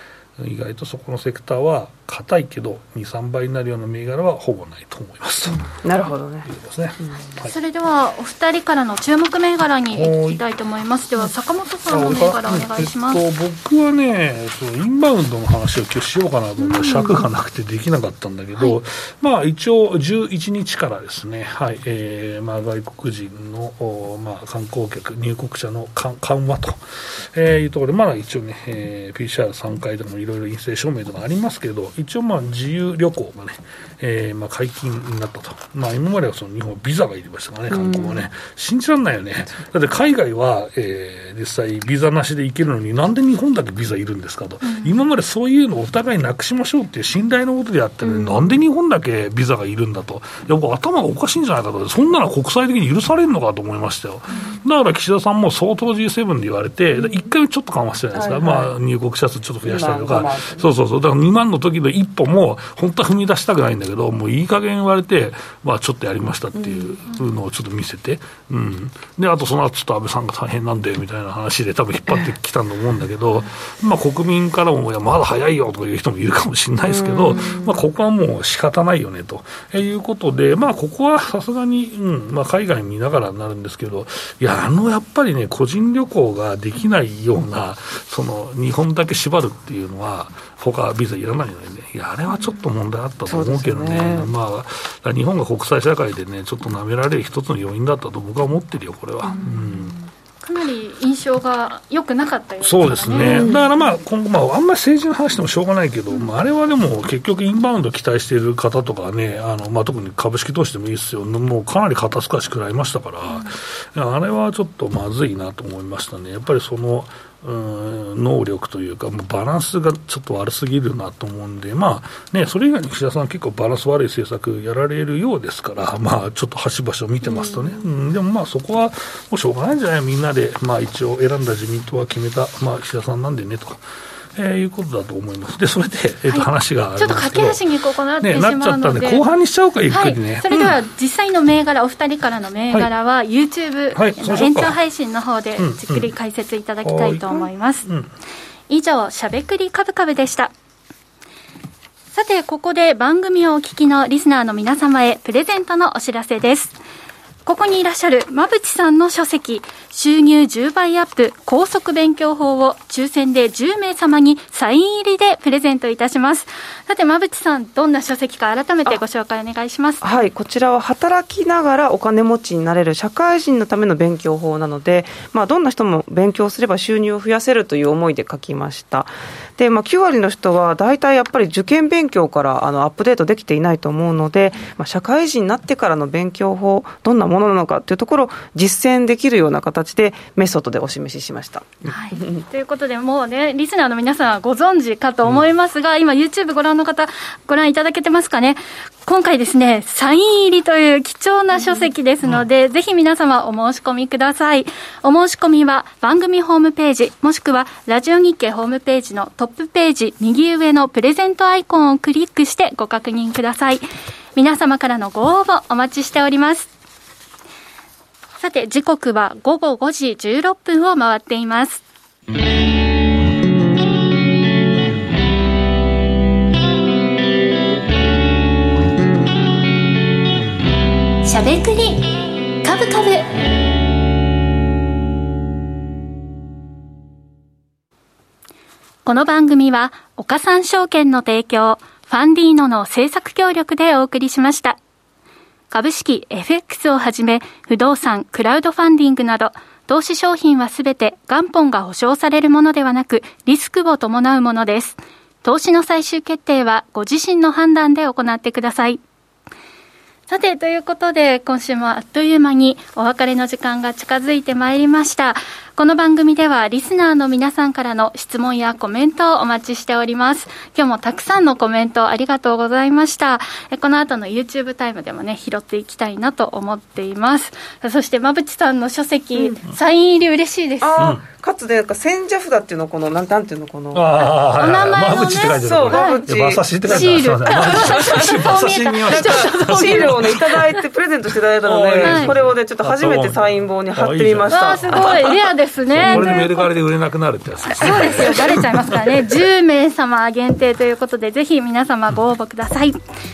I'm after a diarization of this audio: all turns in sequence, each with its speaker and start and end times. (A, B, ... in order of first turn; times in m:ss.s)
0:00.4-0:07.5 A
0:05.5-0:06.5 B
0:07.4-0:13.2 C
0:09.9-0:10.4 A
0:11.9-1:40.0 A
0:16.7-0:17.2 B
0:37.7-0:38.2 B
0:48.0-0:48.6 B
0:58.1-0:58.7 B
0:59.6-1:00.7 B
1:06.6-1:07.0 B
1:16.9-1:17.8 B
1:33.3-1:34.3 B
1:40.4-1:43.7 C
1:42.6-2:13.8 A
1:43.2-1:43.6 B
2:07.2-2:07.7 B
2:14.4-2:17.7 A
2:16.3-2:19.2 C
2:18.2-2:20.8 A
2:19.9-2:27.9 C
2:23.9-2:24.8 A
2:25.6-2:26.1 A
2:26.8-2:28.1 A
2:28.7-2:30.5 C
2:32.1-2:36.8 C
2:37.4-2:50.0 C
2:50.0-3:12.4 B
3:11.8-3:33.8 C
3:34.4-3:36.7 C
3:38.4-3:41.8 C
3:51.2-3:52.0 C
3:52.6-3:53.3 C
3:59.0-4:04.8 C
4:05.7-4:19.0 C
4:20.3-4:41.1 C
4:40.8-4:44.2 B
4:41.0-4:41.2 A
4:43.9-4:50.7 A
4:44.6-4:46.2 C
4:45.6-4:55.2 B
4:46.8-4:50.4 C
4:51.6-4:55.4 A
4:52.0-4:52.3 C
4:54.5-4:56.7 C
4:55.9-4:58.7 A
4:56.0-4:56.4 B
4:57.8-5:03.0 C